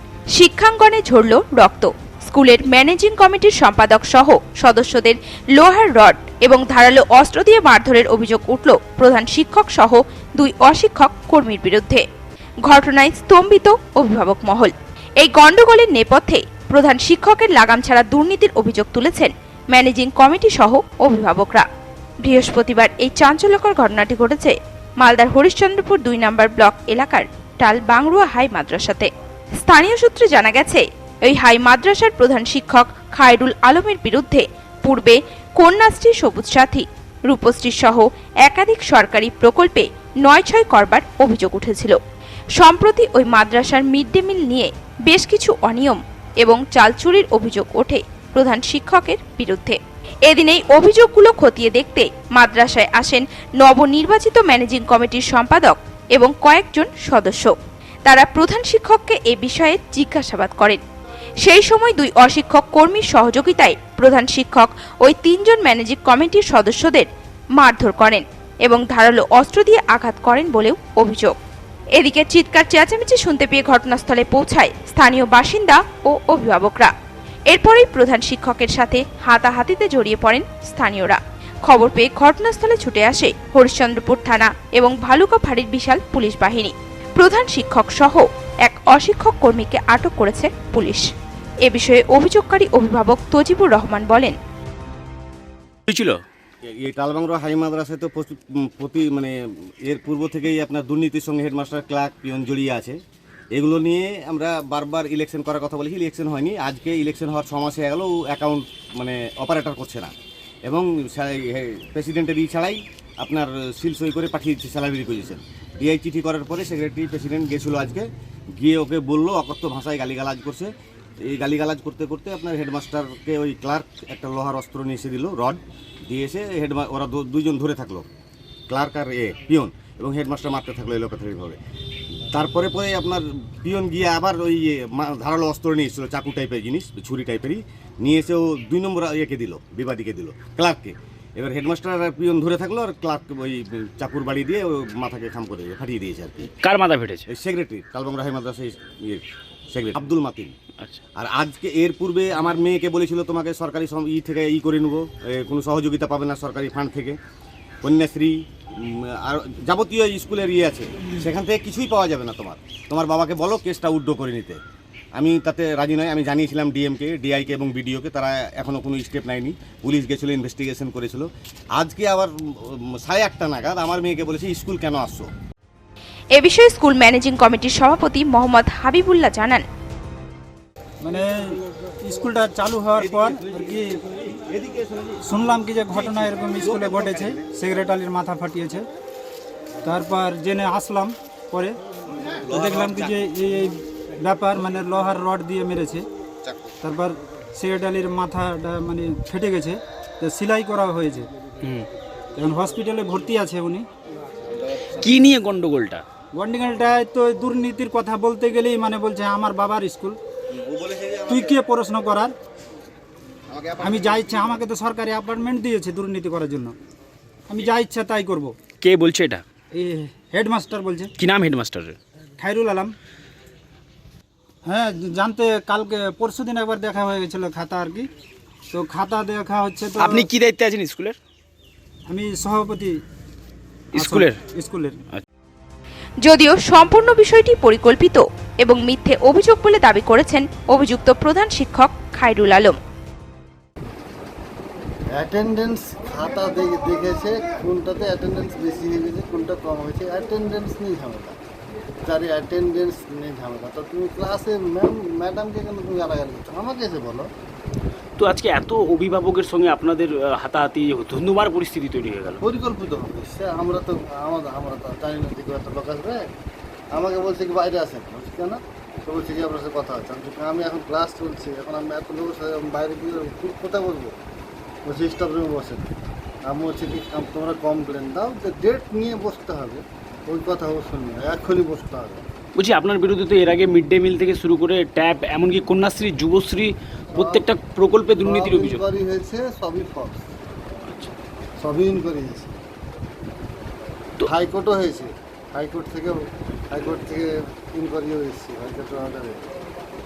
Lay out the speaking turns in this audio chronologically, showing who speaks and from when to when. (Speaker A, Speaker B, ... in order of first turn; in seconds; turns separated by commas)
Speaker A: 0.3-12.0, Speaker A: 12.7-21.6, Speaker A: 22.2-29.1, Speaker A: 29.6-42.0, Speaker A: 42.6-57.5, Speaker A: 58.0-60.8, Speaker A: 61.4-71.3, Speaker A: 72.0-76.9, Speaker A: 77.5-91.1, Speaker A: 91.6-94.4, Speaker B: 95.9-96.2, Speaker C: 96.6-99.3, Speaker C: 99.8-103.0, Speaker C: 103.5-110.1, Speaker C: 110.7-118.1, Speaker C: 118.6-120.7, Speaker C: 121.2-128.1, Speaker C: 128.7-131.6, Speaker C: 132.3-146.5, Speaker B: 146.6-147.2, Speaker C: 147.3-150.5, Speaker C: 151.2-157.2, Speaker C: 157.8-164.6, Speaker C: 165.2-175.3, Speaker A: 176.3-179.6, Speaker D: 181.0-184.0, Speaker C: 184.3-185.2, Speaker D: 185.2-188.8, Speaker C: 186.7-187.3, Speaker D: 189.8-191.8, Speaker D: 192.5-196.1, Speaker C: 192.5-193.2, Speaker C: 196.4-196.7, Speaker D: 196.8-201.3, Speaker B: 201.6-201.9, Speaker D: 202.3-203.9, Speaker B: 204.8-206.0, Speaker D: 206.3-210.2, Speaker C: 210.5-211.6, Speaker D: 211.3-212.3, Speaker C: 213.5-214.6, Speaker D: 213.8-216.7, Speaker D: 217.5-218.6, Speaker B: 218.8-219.4, Speaker D: 219.7-221.1, Speaker B: 221.2-222.0, Speaker D: 222.4-222.9, Speaker D: 224.6-228.1, Speaker D: 228.7-230.3, Speaker B: 230.0-231.2, Speaker D: 232.1-233.0, Speaker B: 233.9-234.4, Speaker D: 233.9-235.0, Speaker A: 236.2-242.8, Speaker E: 245.1-251.4, Speaker E: 252.0-257.3, Speaker B: 258.2-262.4, Speaker E: 262.4-266.3, Speaker E: 266.9-274.1, Speaker E: 274.9-275.9, Speaker E: 276.4-282.2, Speaker B: 282.6-288.8, Speaker E: 287.1-287.5, Speaker E: 288.2-290.2, Speaker B: 290.9-291.1, Speaker E: 291.6-292.5, Speaker E: 294.3-296.2, Speaker E: 296.7-299.4